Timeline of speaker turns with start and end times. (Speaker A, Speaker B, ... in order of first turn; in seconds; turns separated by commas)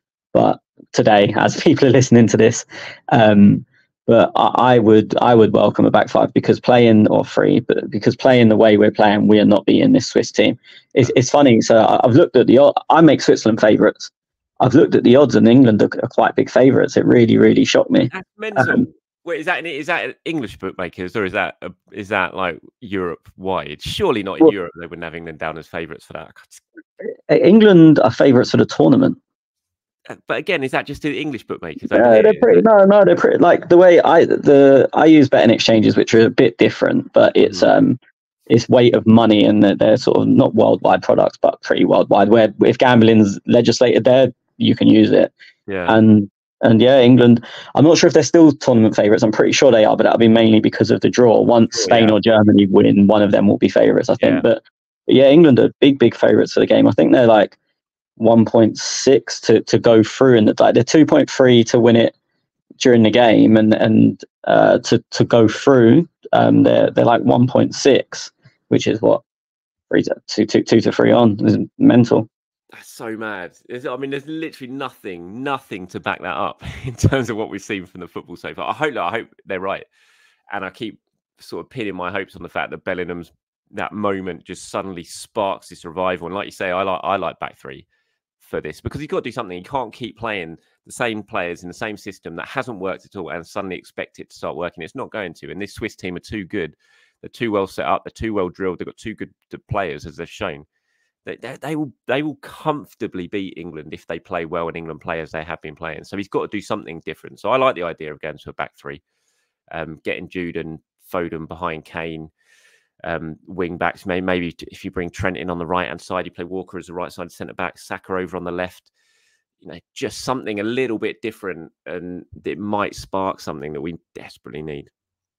Speaker A: 0.3-18.9, Speaker B: 18.1-26.6, Speaker A: 27.0-29.2, Speaker B: 30.1-32.6, Speaker A: 31.9-38.0, Speaker B: 37.4-37.7, Speaker A: 38.5-45.3, Speaker B: 45.7-46.0, Speaker A: 45.9-57.6, Speaker B: 51.7-52.1, Speaker B: 54.2-54.4, Speaker A: 58.2-62.1, Speaker A: 62.8-69.2, Speaker A: 69.9-72.3, Speaker B: 72.7-79.8, Speaker B: 80.5-87.8, Speaker B: 88.4-100.7, Speaker B: 101.2-109.0, Speaker B: 109.7-112.3, Speaker B: 113.0-118.9, Speaker B: 119.6-124.9